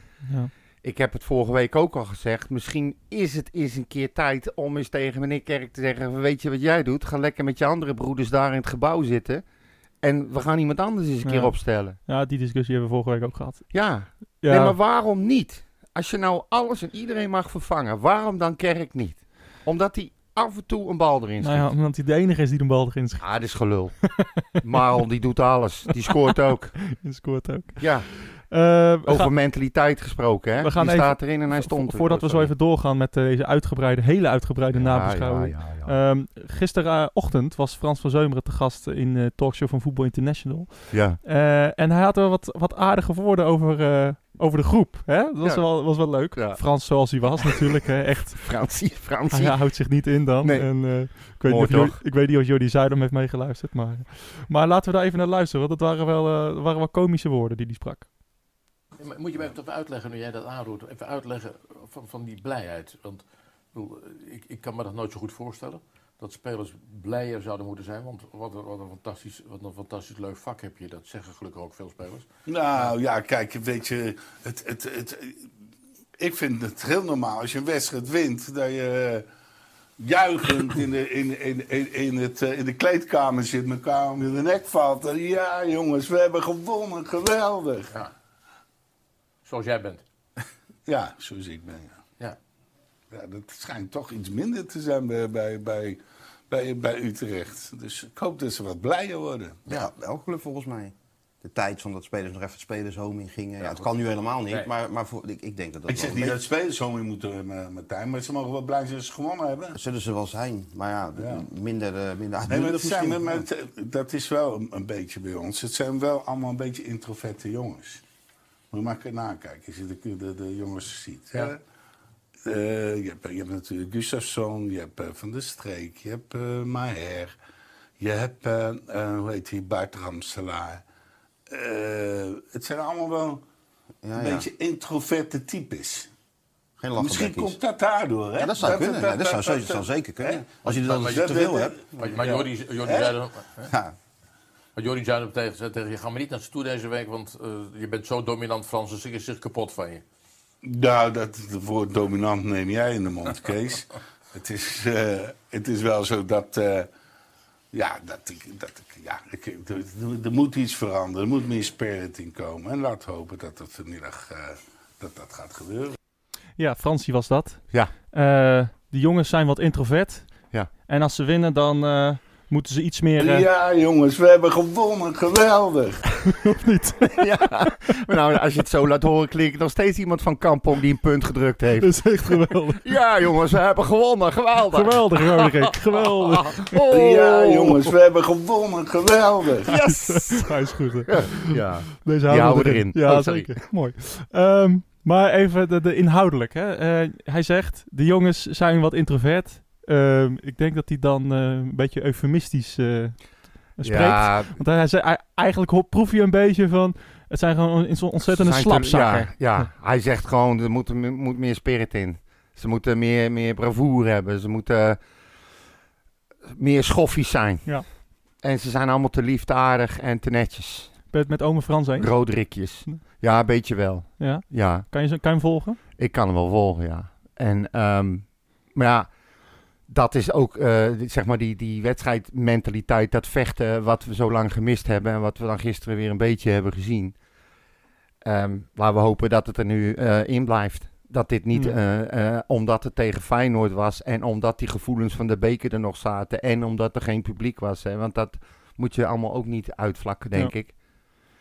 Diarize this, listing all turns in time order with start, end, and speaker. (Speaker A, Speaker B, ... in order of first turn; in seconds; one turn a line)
Speaker A: 0.3-0.5
Speaker B: 0.8-9.4
Speaker B: 10.0-12.0
Speaker A: 11.2-13.8
Speaker B: 13.7-21.7
Speaker A: 14.4-14.8
Speaker A: 21.4-23.4
Speaker B: 23.2-26.8
Speaker A: 24.0-24.5
Speaker A: 26.9-29.3
Speaker B: 27.8-28.1
Speaker B: 29.1-32.5
Speaker A: 30.6-58.1
Speaker B: 34.7-36.0
Speaker B: 40.9-41.2
Speaker B: 45.4-47.5
Speaker B: 48.4-52.0
Speaker C: 59.0-73.0
Speaker D: 72.5-75.4
Speaker D: 76.2-79.3
Speaker D: 80.0-88.0
Speaker C: 89.5-90.0
Speaker D: 90.9-92.0
Speaker D: 93.1-99.7
Speaker E: 99.7-106.4
Speaker D: 105.9-109.8
Speaker E: 109.8-113.4
Speaker D: 111.2-111.5
Speaker D: 112.5-118.0
Speaker D: 118.7-121.6
Speaker D: 122.4-127.3
Speaker D: 128.0-130.8
Speaker D: 131.5-133.4
Speaker E: 134.0-134.5
Speaker D: 134.2-136.1
Speaker E: 136.8-137.6
Speaker D: 137.0-143.2
Speaker E: 138.4-142.1
Speaker C: 142.0-143.7
Speaker E: 143.7-144.0
Speaker C: 144.8-150.0
Speaker D: 150.6-156.9
Speaker D: 157.7-166.0
Speaker A: 166.6-173.5
Speaker D: 173.2-176.3
Speaker A: 176.4-177.2
Speaker B: 177.2-187.9
Speaker A: 181.8-182.9
Speaker A: 184.7-186.8
Speaker D: 186.9-189.7
Speaker B: 189.7-193.6
Speaker A: 189.7-209.7
Speaker B: 203.8-204.6
Speaker B: 208.2-215.0
Speaker B: 216.5-221.0
Speaker A: 221.1-222.3
Speaker B: 222.0-224.9
Speaker A: 224.2-225.8
Speaker B: 226.0-229.1
Speaker B: 229.9-237.2
Speaker B: 238.2-250.8